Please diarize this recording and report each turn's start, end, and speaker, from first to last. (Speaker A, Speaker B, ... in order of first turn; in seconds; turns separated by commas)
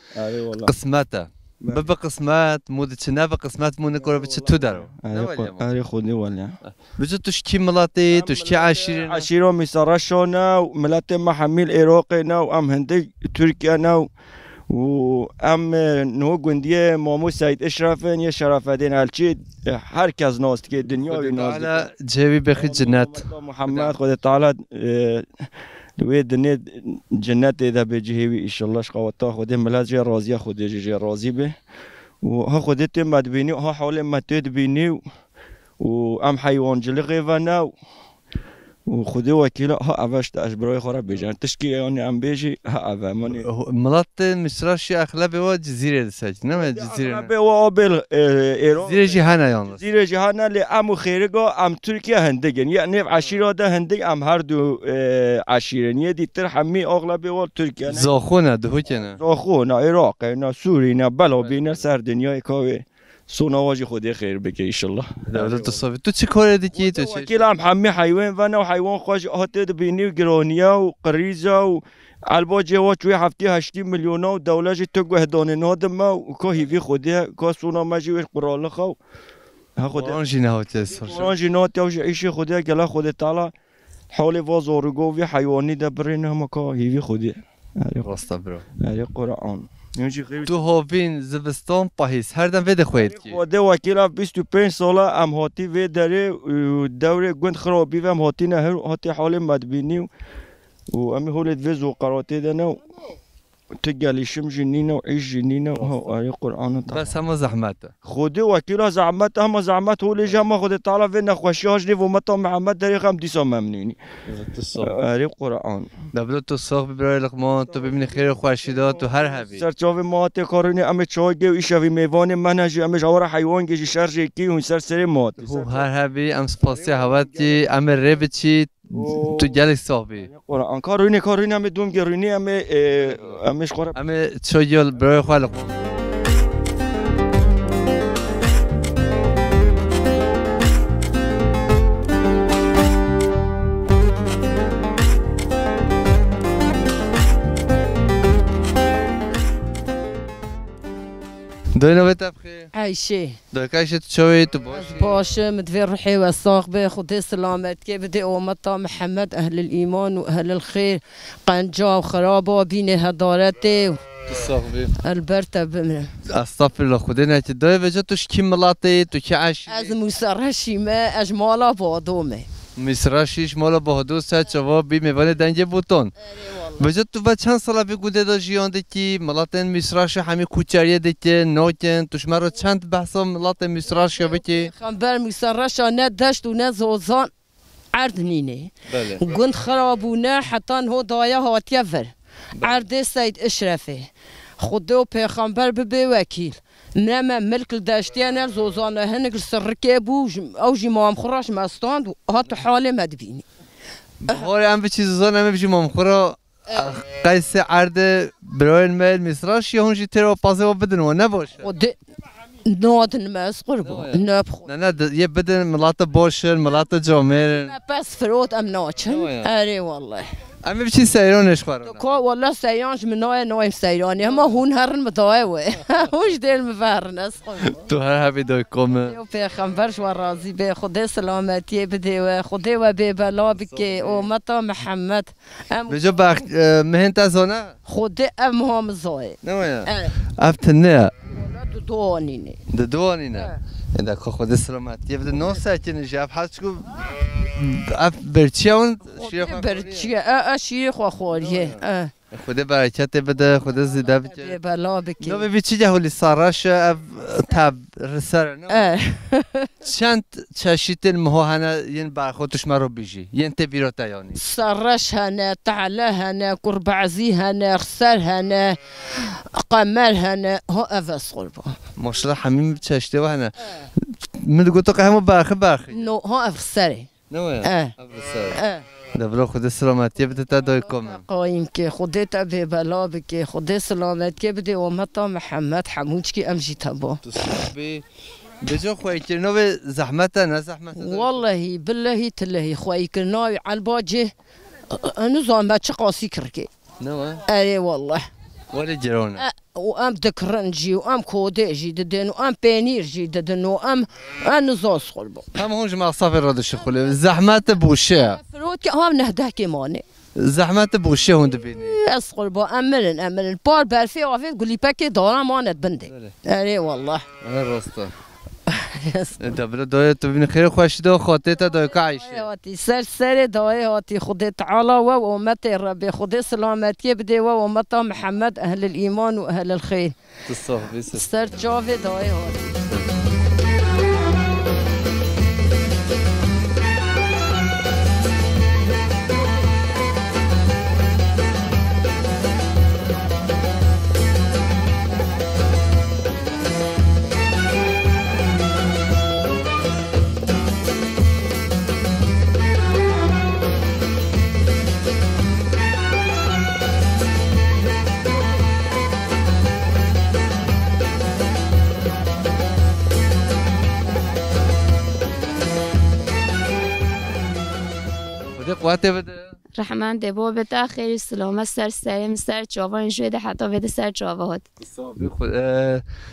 Speaker A: 0.2-0.7, Speaker B: 0.6-5.7, Speaker A: 1.6-1.9, Speaker A: 4.0-6.6, Speaker B: 6.6-9.3, Speaker A: 8.1-14.1, Speaker A: 14.7-21.9, Speaker B: 21.1-24.0, Speaker A: 22.5-25.5, Speaker A: 26.0-31.6, Speaker A: 32.2-35.0, Speaker A: 35.8-37.7, Speaker A: 38.9-43.5, Speaker B: 43.3-47.3, Speaker A: 46.5-58.1, Speaker B: 48.8-49.8, Speaker B: 57.9-59.2, Speaker A: 59.2-65.8, Speaker B: 61.4-61.8, Speaker B: 65.3-67.5, Speaker A: 66.7-79.0, Speaker A: 79.8-80.2, Speaker B: 79.9-81.3, Speaker A: 80.8-83.5, Speaker A: 84.1-88.1, Speaker B: 88.0-88.7, Speaker A: 88.8-90.7, Speaker B: 90.5-93.4, Speaker A: 92.9-100.1, Speaker A: 100.9-102.8, Speaker A: 103.8-107.2, Speaker B: 105.7-106.1, Speaker B: 106.9-107.9, Speaker A: 108.0-114.0, Speaker B: 110.2-110.5, Speaker B: 114.3-115.0, Speaker A: 114.8-115.9, Speaker B: 116.1-119.7, Speaker A: 117.5-125.9, Speaker B: 125.4-130.3, Speaker A: 126.6-127.7, Speaker A: 128.9-129.6, Speaker A: 130.2-134.0, Speaker B: 133.0-133.3, Speaker B: 133.9-135.8, Speaker B: 151.8-152.7, Speaker C: 152.7-153.4, Speaker B: 153.5-155.3, Speaker C: 154.7-164.1, Speaker B: 164.3-165.0, Speaker C: 165.0-166.1, Speaker B: 166.3-170.0, Speaker C: 169.7-172.5, Speaker B: 172.8-176.2, Speaker C: 176.4-176.8, Speaker B: 176.8-184.7, Speaker C: 184.2-187.3, Speaker C: 187.9-203.4, Speaker B: 188.9-189.3, Speaker B: 192.6-192.9, Speaker B: 204.2-211.7, Speaker C: 206.7-206.9, Speaker C: 211.6-212.0, Speaker C: 212.7-214.7, Speaker B: 213.8-217.8, Speaker C: 217.6-220.3, Speaker B: 219.1-219.5, Speaker B: 220.6-222.1, Speaker C: 221.8-227.8, Speaker B: 227.7-229.2, Speaker C: 229.1-236.0, Speaker B: 233.5-234.3, Speaker B: 235.9-237.8, Speaker C: 237.9-240.1, Speaker B: 239.4-241.1, Speaker C: 241.3-242.6, Speaker B: 242.7-250.1, Speaker C: 249.1-252.1, Speaker B: 251.3-254.6, Speaker C: 254.2-255.5, Speaker B: 255.2-258.9, Speaker C: 258.7-259.7, Speaker B: 259.9-264.4, Speaker C: 264.4-268.8, Speaker C: 269.6-271.7, Speaker B: 272.0-276.1, Speaker C: 275.9-277.1, Speaker B: 277.3-278.6, Speaker C: 277.6-277.9, Speaker C: 278.5-278.8, Speaker B: 279.1-281.3, Speaker C: 280.9-287.2, Speaker B: 287.2-288.0, Speaker B: 288.6-291.5, Speaker C: 291.0-294.3, Speaker C: 294.9-296.7, Speaker B: 297.0-297.4, Speaker C: 297.5-298.2, Speaker B: 298.7-299.5, Speaker C: 299.4-305.5, Speaker B: 305.6-308.4, Speaker C: 308.4-310.0, Speaker B: 310.4-312.0, Speaker C: 311.8-317.2, Speaker B: 316.1-316.4, Speaker B: 317.4-318.1, Speaker C: 318.7-319.4, Speaker B: 319.4-322.5, Speaker C: 322.0-330.1, Speaker B: 330.5-331.5, Speaker C: 331.1-332.8, Speaker B: 332.9-333.3, Speaker B: 368.6-369.6, Speaker D: 369.8-374.6, Speaker B: 374.8-376.0